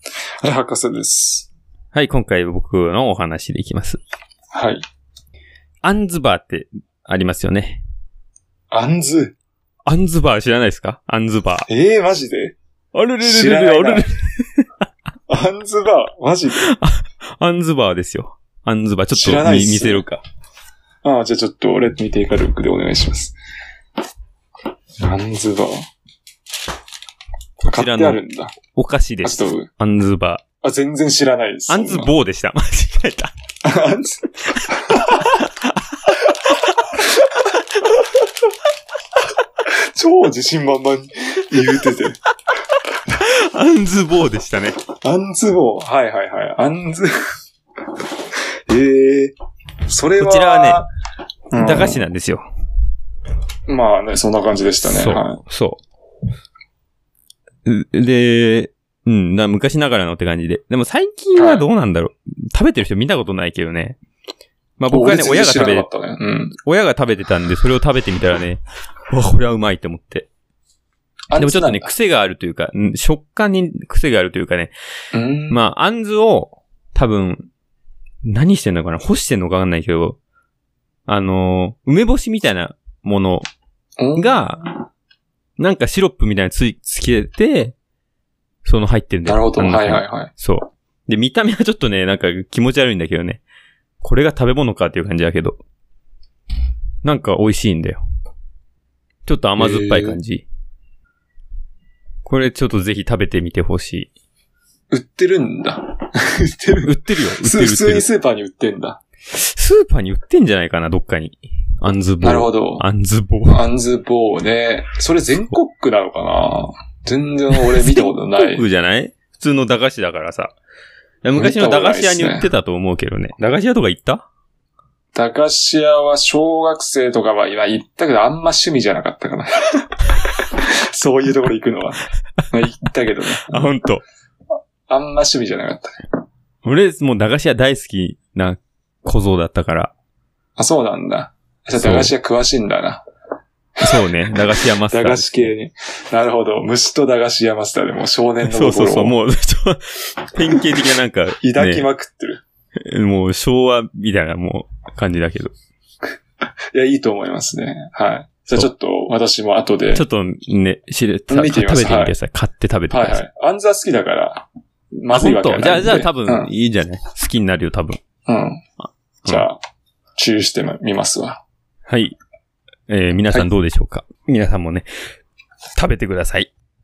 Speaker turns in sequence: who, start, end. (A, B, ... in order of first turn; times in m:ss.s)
0:00.4-0:01.5 A
0:01.9-0:04.0 B
0:04.5-0:04.8 A
0:05.8-0:07.8 B
0:08.7-0:09.3 A
0:09.8-0:11.7 B
0:11.7-0:12.6 A
0:12.9-0:14.6 B
0:13.2-0:14.0 A
0:15.3-0:16.6 A
0:16.6-0:20.2 B
0:19.1-0:20.0 A
0:21.0-0:23.4 A
0:25.0-0:25.8 A
0:27.6-0:28.2 B
0:27.6-0:28.6 A
0:28.7-0:30.4 B
0:29.2-0:29.7 A
0:30.6-0:32.1 A
0:31.7-0:33.3 B
0:33.6-0:35.2 A
0:35.0-0:35.7 B
0:39.9-0:42.2 A
0:43.1-0:44.8 B
0:45.0-0:47.1 A
0:48.7-0:49.3 A
0:49.9-0:50.9 A
0:50.2-0:50.8 B
0:51.5-0:52.0 A
0:51.6-0:52.4 B
0:53.7-0:55.4 A
0:54.8-0:55.8 B
0:57.6-1:04.0 B
1:01.4-1:01.6 A
1:04.8-1:05.8 B
1:04.9-1:06.6 A
1:06.6-1:10.3 B
1:11.3-1:11.9 A
1:11.4-1:14.7 B
1:15.1-1:15.6 A
1:15.5-1:17.5 B
1:18.2-1:20.2 B
1:21.1-1:23.4 B
1:24.0-1:24.4 A
1:24.2-1:24.8 B
1:25.6-1:27.8 B
1:28.6-1:33.4 B
1:29.2-1:30.3 A
1:34.0-1:35.6 B
1:37.0-1:38.0 B
1:39.2-1:40.4 B
1:39.6-1:40.2 A
1:42.2-1:44.1 B
1:44.9-1:49.0 A
1:46.8-1:48.1 B
1:49.3-1:53.6 B
1:52.2-1:52.8 A
1:53.5-1:58.6 A
1:57.6-2:00.5 B
2:01.2-2:04.2 B
2:01.4-2:02.5 A
2:05.1-2:09.9 A
2:10.9-2:12.0 A
2:12.5-2:13.4 A
2:13.4-2:14.0 B
2:14.9-2:15.9 A
2:16.6-2:19.9 B
2:20.6-2:23.0 A
2:21.8-2:22.1 B
2:23.8-2:25.5 B
2:24.9-2:29.2 A
2:28.4-2:31.9 B
2:31.4-2:32.4 A
2:32.8-2:35.5 B
2:36.7-2:40.0 A
2:39.9-2:43.2 B
2:41.3-2:42.2 A
2:42.9-2:44.4 A
2:45.0-2:46.5 A
2:45.1-2:48.0 B
2:48.3-2:48.6 A
2:49.2-2:49.6 A
2:50.2-2:51.4 A
2:51.9-2:52.2 B
2:52.9-2:54.9 B
2:55.8-2:56.5 B